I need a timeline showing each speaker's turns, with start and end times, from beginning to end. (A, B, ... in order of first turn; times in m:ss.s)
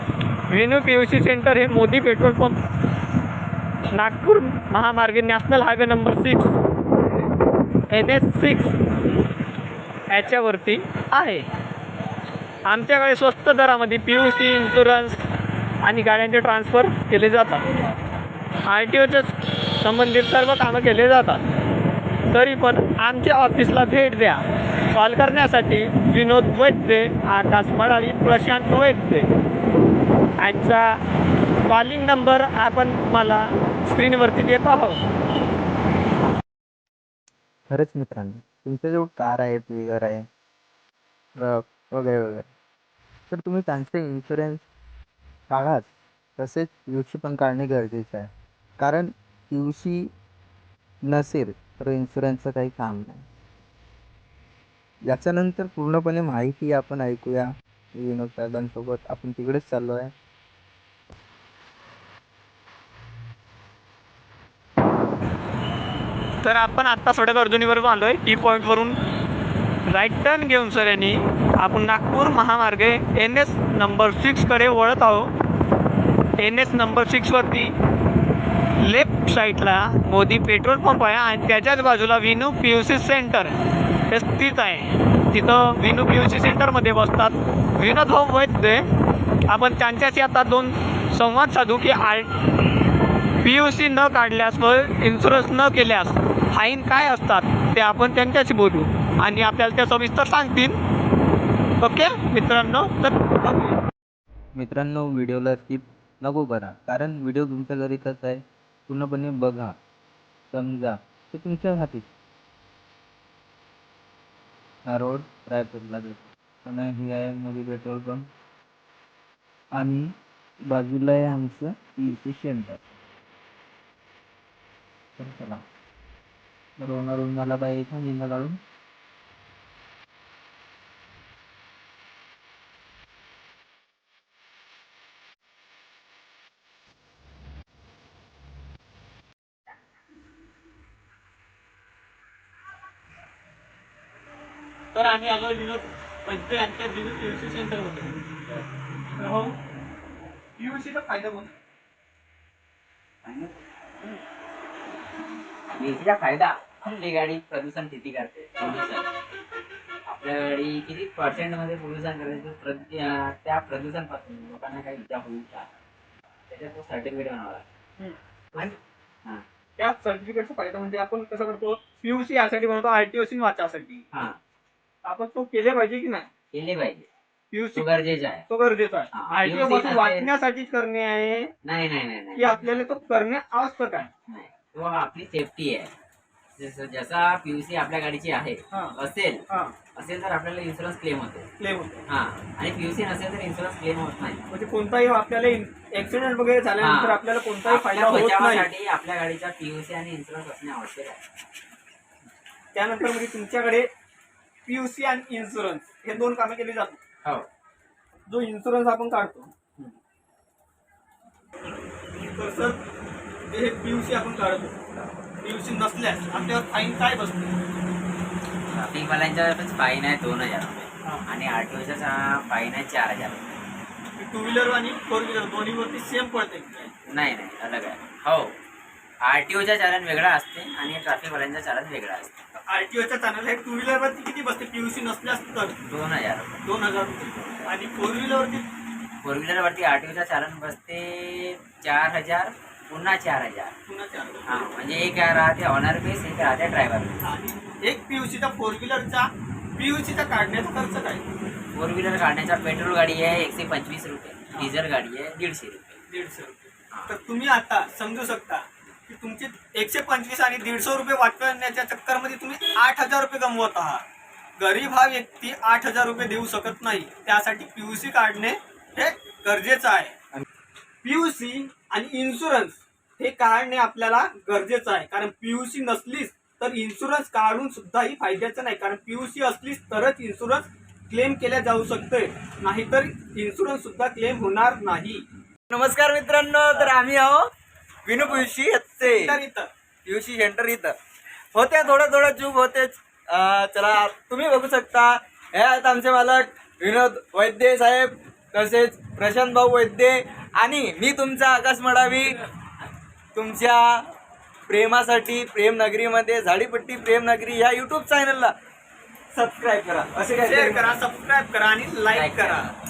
0:00.5-0:02.6 A
0:03.9-0:06.5 A
0:07.9-0:08.7 A
0:10.1-0:11.4 A
0:12.6-0:15.2 A
0:15.8-0:17.6 A
0:18.6-0:21.4 A
0:22.3-0:24.4 A
0:24.9-0:29.3 A
0:30.4-0:31.0 A
0:31.7-0:35.0 A
0:37.7-0:40.2 B
0:41.4-0:42.5 B
0:43.3-0:44.6 B
0:45.5-0:50.1 B
0:51.0-0:53.2 B
0:55.0-1:00.1 B
1:06.4-1:09.0 A
1:09.9-1:15.3 A
1:16.4-1:17.7 A
1:18.8-1:23.5 A
1:24.1-1:28.8 A
1:29.5-1:32.3 A
1:33.4-1:40.8 A
1:41.8-1:43.8 A
1:44.5-1:49.8 B
1:50.5-1:52.1 B
1:54.8-1:58.3 B
1:59.7-2:00.1 B
2:00.7-2:02.8 B
2:05.2-2:05.6 B
2:06.8-2:08.6 B
2:24.9-2:28.2 A
2:29.2-2:29.6 A
2:30.6-2:31.5 A
2:33.2-2:33.5 C
2:35.7-2:39.1 C
2:40.0-2:45.7 C
2:46.5-2:47.6 C
2:48.0-2:48.6 A
2:48.5-2:49.4 C
2:49.8-2:54.0 A
2:54.1-2:54.4 C
2:55.0-2:56.3 A
2:56.5-2:57.1 C
2:57.5-2:57.8 A
2:57.7-2:58.4 C
2:58.5-3:01.5 A
2:59.1-3:00.3 C
3:01.6-3:02.6 C
3:02.3-3:04.1 A
3:04.3-3:05.9 C
3:06.5-3:09.4 C
3:08.7-3:09.0 A
3:09.5-3:09.7 A
3:09.9-3:11.5 C
3:11.6-3:12.0 A
3:12.1-3:14.4 C
3:14.5-3:18.7 A
3:16.8-3:21.2 C
3:22.7-3:23.9 A
3:24.6-3:27.0 A
3:28.3-3:29.5 A
3:32.2-3:32.8 A
3:33.5-3:34.7 A
3:35.4-3:37.5 A
3:38.7-3:43.6 C
3:44.2-3:46.9 A
3:47.1-3:48.5 C
3:49.2-3:52.3 C
3:52.7-3:55.8 A
3:55.9-3:57.7 C
3:56.6-3:58.6 A
3:59.2-4:03.7 C
4:03.9-4:04.6 A
4:04.4-4:07.2 C
4:07.2-4:11.2 A
4:11.7-4:16.0 C
4:16.1-4:24.0 A
4:16.9-4:17.2 C
4:24.6-4:30.1 A
4:31.0-4:45.2 A
4:45.7-4:47.5 D
4:48.0-4:49.4 D
4:49.0-4:49.7 A
4:50.0-4:50.9 D
4:51.5-5:02.4 D
5:03.3-5:03.8 D
5:04.7-5:08.5 D
5:09.3-5:10.9 D
5:10.4-5:12.7 A
5:12.1-5:12.7 C